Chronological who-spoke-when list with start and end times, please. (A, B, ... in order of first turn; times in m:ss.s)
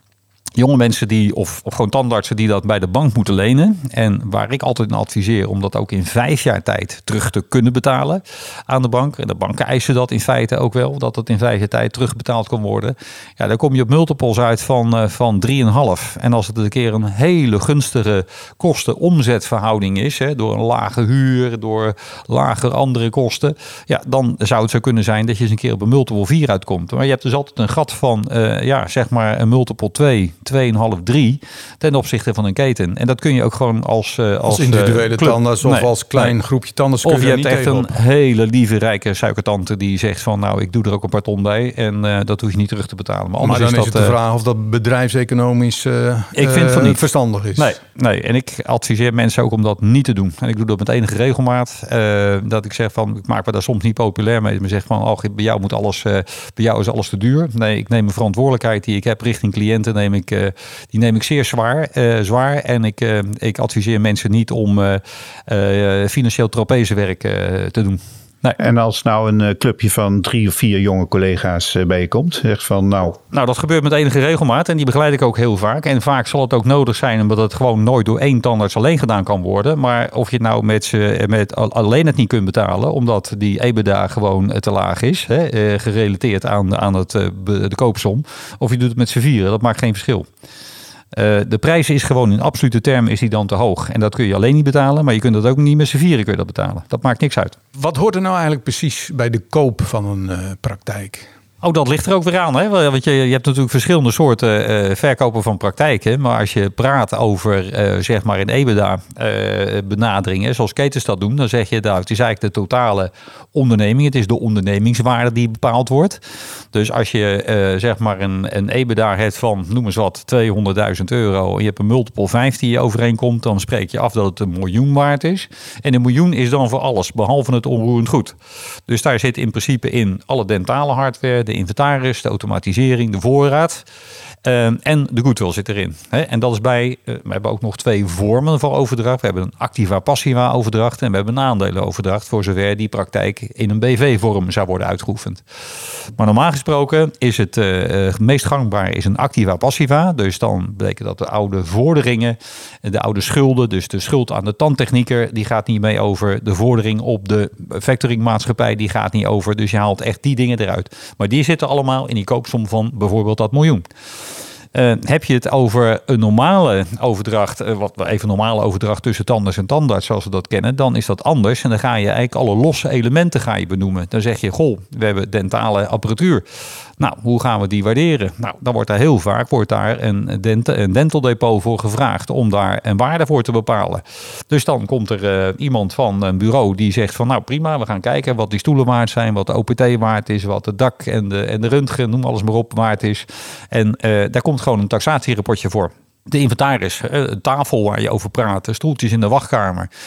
0:00.6-0:36.4 A
0:34.5-0:37.9 B
0:37.0-0:44.2 A
0:43.4-0:47.8 B
0:46.4-0:47.0 A
0:47.6-1:08.6 A
1:08.6-1:13.2 C
1:13.3-1:30.3 A
1:31.1-1:37.6 A
1:37.8-1:41.3 B
1:41.6-1:56.2 A
1:56.7-2:08.4 A
2:08.9-2:13.8 A
2:14.4-2:25.4 A
2:26.2-2:43.9 A
2:44.7-2:56.4 A
2:57.0-3:19.9 A